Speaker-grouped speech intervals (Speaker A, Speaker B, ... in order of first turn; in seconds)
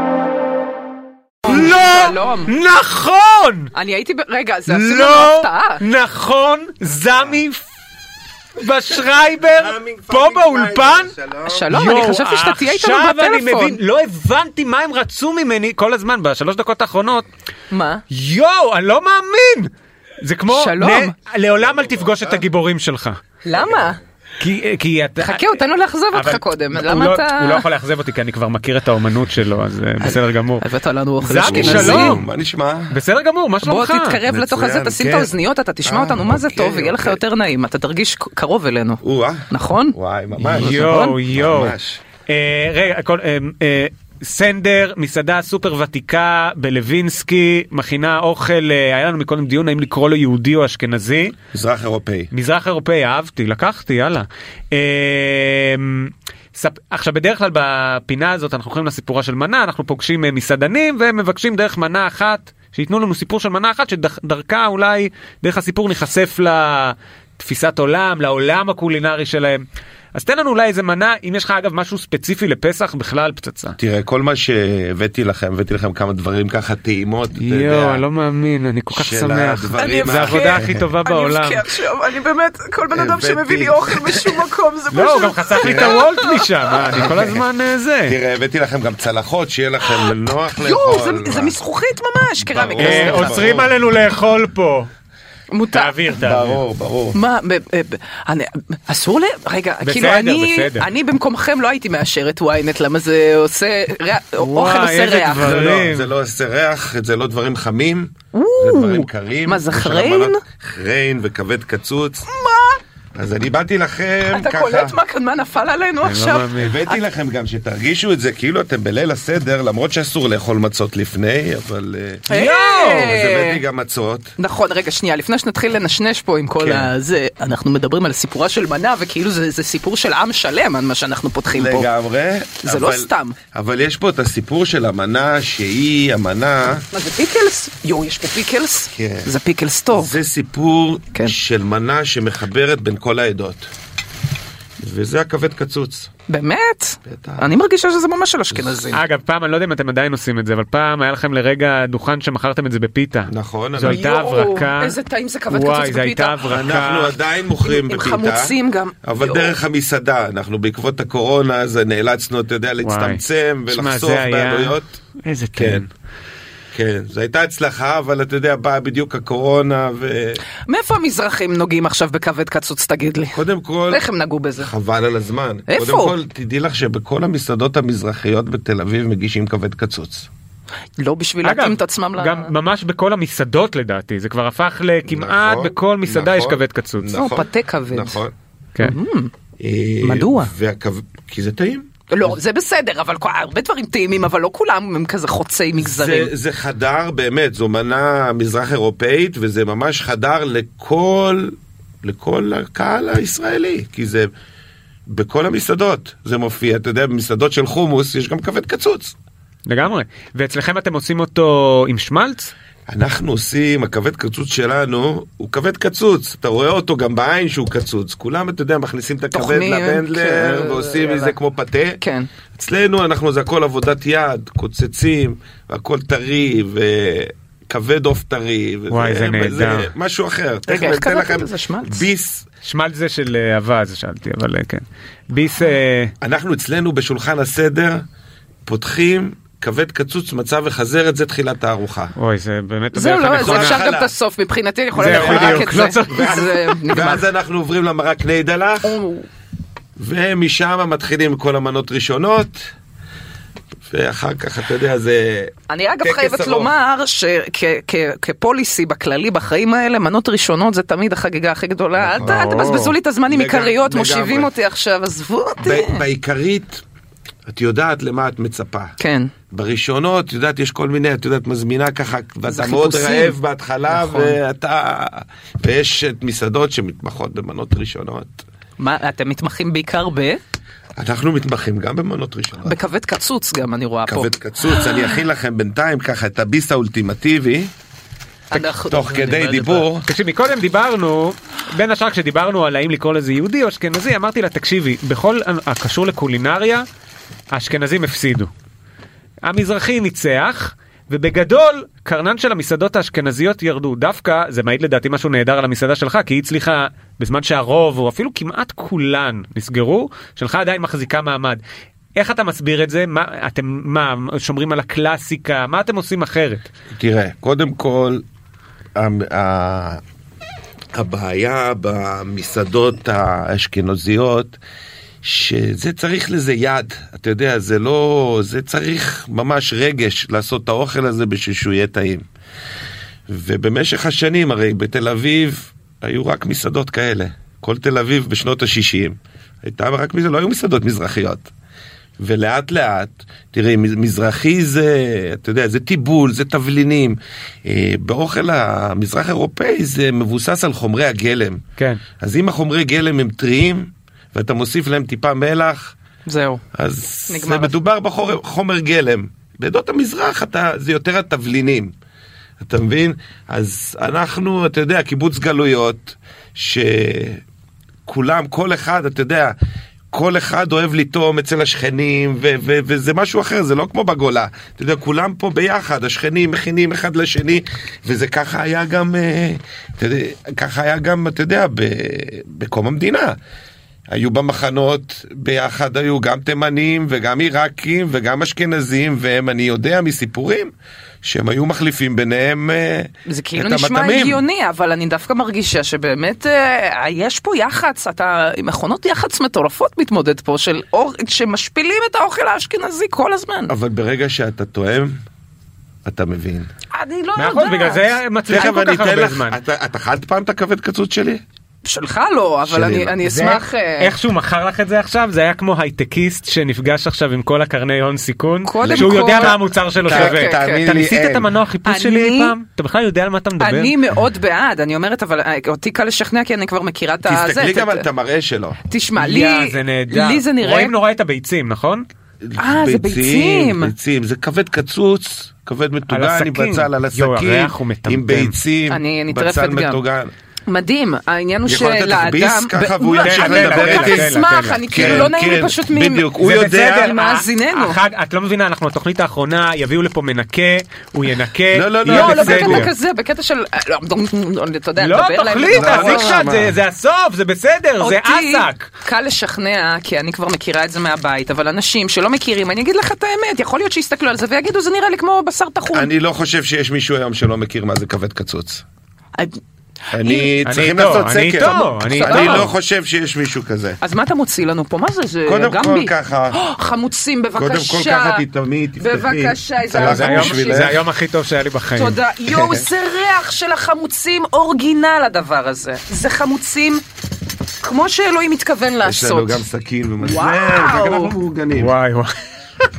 Speaker A: 1.4-2.5, 3.7-5.8, 11.5-13.8, 17.7-18.0, 20.5-21.1, 23.4-24.0, 25.2-27.6, 30.0-32.2, 33.6-40.0, 40.7-41.2, 79.8-86.4, 90.6-93.4, 95.5-96.0, 97.1-105.5, 108.3-110.4, 112.3-112.8, 114.3-117.0, 122.3-123.6, 124.4-131.9, 132.6-133.3, 136.9-140.2, 146.3-149.0, 153.8-156.6, 157.6-159.6, 170.7-174.7, 175.7-176.1, 181.0-182.5, 187.1-188.2, 188.8-189.3, 190.0-190.5, 192.1-196.3, 219.3-221.3, 222.0-222.3, 230.7-232.1, 242.9-247.2, 248.8-249.2, 255.7-266.0, 269.0-269.3, 272.5-273.4, 273.9-274.4, 278.8-280.4, 282.6-285.1, 288.5-289.9, 356.2-356.6, 357.3-357.7, 393.2-403.7, 406.9-408.2, 411.8-414.1, 418.6-420.8, 421.8-422.5, 423.6-428.1, 428.9-430.9, 432.6-433.9, 438.9-440.0, 440.7-446.3, 446.9-448.0, 452.0-456.4, 458.0-466.1, 470.1-470.5, 471.6-472.7, 474.0-478.4, 479.0-480.9, 481.9-487.0, 487.8-489.6, 490.2-491.3
Speaker B: 1.4-3.7, 4.7-7.6, 8.6-11.1, 11.7-17.2, 18.1-19.7, 20.2-23.2, 24.4-25.6, 26.1-30.6, 31.2-32.2, 32.9-34.2, 40.4-41.8, 42.3-51.4, 52.3-73.8, 77.4-81.6, 84.9-88.2, 92.7-94.9, 95.7-96.6, 99.8-100.9, 104.4-106.1, 116.0-116.8, 122.3-123.1, 148.9-155.0, 155.5-157.2, 162.8-165.9, 181.4-187.1, 209.7-212.5, 228.9-229.9, 232.6-236.1, 242.2-243.8, 244.9-246.8, 262.2-262.9, 290.1-296.8, 297.5-298.5, 299.4-311.6, 312.1-316.7, 351.8-352.0, 407.4-409.6, 413.4-424.0, 429.2-432.1, 436.1-438.5, 443.2-445.3, 446.4-452.9, 455.0-458.9, 470.6-472.7, 479.9-482.2, 491.7-492.3
Speaker C: 9.4-11.7, 31.4-32.9, 34.2-35.3, 35.8-37.2, 39.0-42.0, 51.5-52.3, 73.8-78.0, 78.9-80.8, 82.9-84.4, 85.6-86.0, 86.8-87.4, 88.0-91.6, 92.3-93.7, 96.2-97.2, 105.4-112.3, 113.2-115.0, 116.6-122.3, 122.9-124.3, 126.6-126.9, 131.5-136.8, 138.9-139.3, 139.9-143.7, 144.8-146.1, 147.1-147.6, 148.5-148.8, 153.3-154.0, 156.4-165.0, 165.6-165.8, 166.7-170.4, 173.3-174.0, 174.6-180.3, 185.1-188.3, 189.6-192.3, 195.8-204.3, 205.1-209.1, 212.9-222.0, 222.5-232.5, 236.2-238.0, 238.7-242.1, 243.3-244.1, 245.0-249.0, 250.0-252.7, 253.9-256.7, 262.0-262.6, 263.3-264.5, 265.6-266.8, 267.5-268.9, 269.5-278.4, 281.0-282.8, 284.1-287.7, 288.6-290.1, 316.9-318.2, 318.9-320.0, 320.9-324.6, 325.2-332.2, 333.3-341.5, 342.2-351.6, 352.2-355.9, 356.8-361.9, 362.6-367.4, 368.1-369.5, 370.1-383.4, 384.1-394.4, 403.7-405.1, 406.0-406.7, 408.5-411.4, 412.6-413.6, 418.8-421.5, 427.2-428.8, 432.4-440.3, 441.6-447.1, 451.7-452.9, 455.7-456.8, 465.9-468.8, 470.1-474.0, 475.4-476.9, 477.5-481.0, 482.5-482.9, 489.0-491.9